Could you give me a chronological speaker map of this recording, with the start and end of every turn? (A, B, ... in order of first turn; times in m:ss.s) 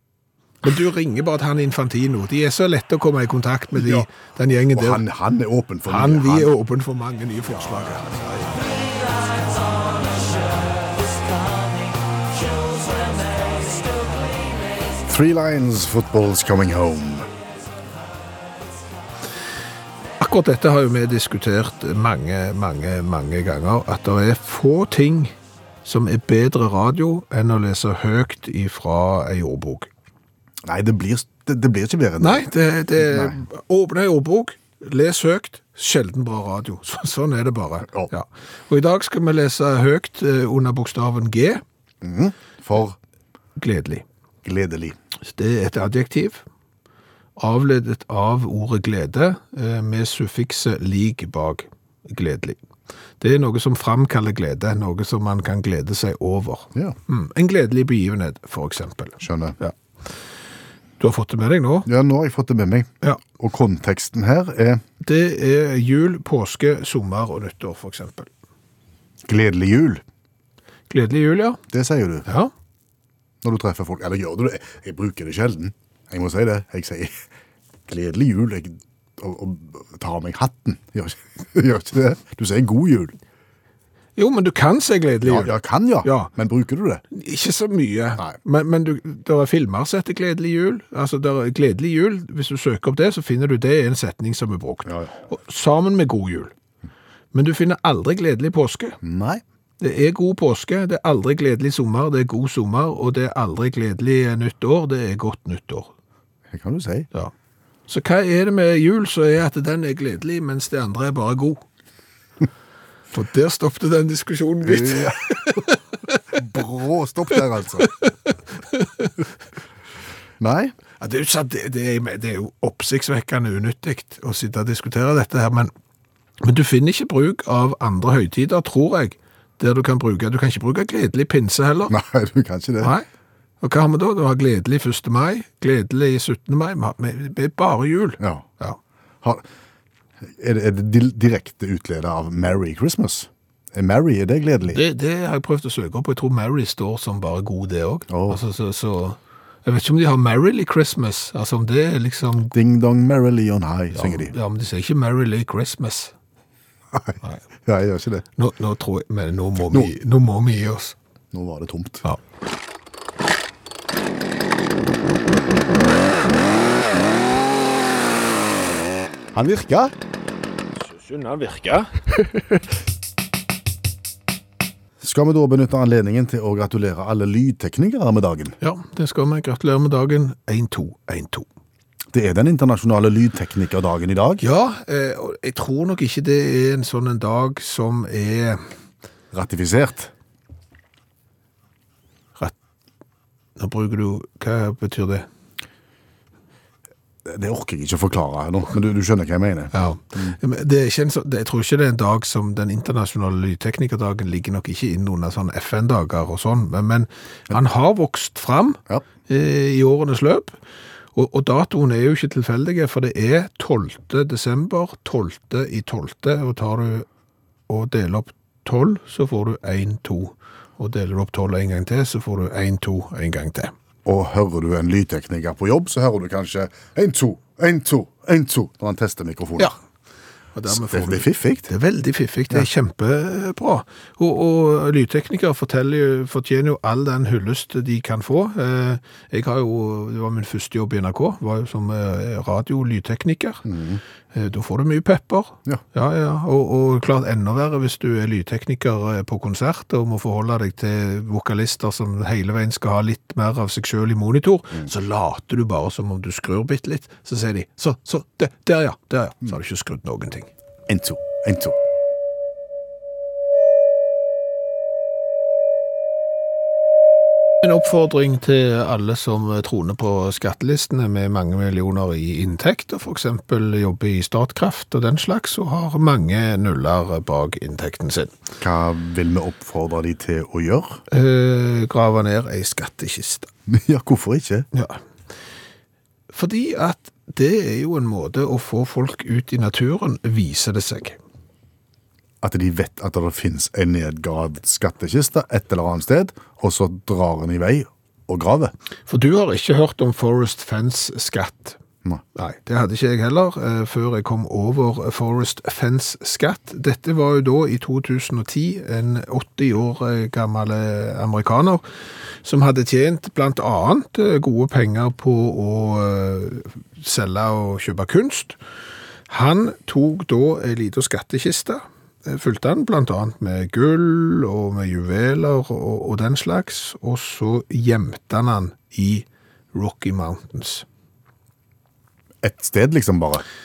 0:00.6-0:05.0 A
0:03.8-0:04.1 B
0:04.7-0:06.5 B
0:05.9-0:08.9 A
0:15.0-0:17.3 B
0:20.2-0:25.3 A
0:25.8-0:29.9 A
0:30.6-0:32.5 B
0:32.2-0:41.6 A
0:33.0-0:33.4 B
0:42.0-0:43.0 B
0:43.6-0:44.0 A
0:44.4-0:45.0 B
0:45.2-0:46.4 A
0:47.4-0:52.6 A
0:53.2-0:59.7 A
0:59.2-0:59.6 B
1:01.0-1:01.9 A
1:01.8-1:04.8 B
1:05.0-1:08.3 A
1:09.3-1:10.0 B
1:10.9-1:11.6 A
1:11.7-1:12.3 B
1:12.3-1:12.5 A
1:13.4-1:17.2 B
1:17.9-1:23.2 B
1:24.2-1:26.3 A
1:25.2-1:27.0 B
1:27.1-1:36.5 A
1:34.9-1:35.2 B
1:37.3-1:39.0 A
1:39.0-1:39.4 B
1:39.8-1:45.9 A
1:46.5-1:47.1 B
1:47.9-1:51.6 A
1:53.1-1:55.8 A
1:54.6-1:55.6 B
1:56.3-1:57.9 B
1:57.8-1:58.1 A
1:58.8-1:59.1 A
2:00.4-2:00.8 B
2:01.0-2:05.7 A
2:06.4-2:11.9 A
2:11.9-2:12.9 B
2:13.6-2:18.8 A
2:18.2-2:18.5 B
2:20.2-2:24.8 B
2:24.7-2:32.5 A
2:28.1-2:28.4 B
2:32.5-2:34.3 B
2:33.9-2:36.1 A
2:36.9-2:38.3 B
2:38.4-2:41.0 A
2:41.3-2:42.0 B
2:49.3-2:49.9 B
2:50.8-2:52.4 A
2:55.0-2:58.6 B
2:58.6-3:01.5 A
3:02.1-3:04.4 B
3:04.4-3:08.6 A
3:09.3-3:10.1 B
3:13.6-3:15.3 A
3:17.2-3:20.4 B
3:19.7-3:30.6 A
3:31.2-3:37.1 A
3:37.7-3:43.7 A
3:44.0-3:49.7 B
3:50.6-4:03.6 A
3:50.7-3:51.7 B
4:03.6-4:04.0 B
4:04.3-4:20.5 A
4:20.9-4:21.8 B
4:27.6-4:38.3 A
4:38.6-4:41.0 B
4:41.1-4:43.5 A
4:43.7-4:44.7 B
4:44.7-4:45.0 A
4:46.3-4:51.2 A
4:52.4-4:58.7 B
4:59.1-5:01.8 A
5:02.4-5:11.8 A
5:12.4-5:18.6 A
5:19.3-5:30.8 A
5:32.4-5:33.4 B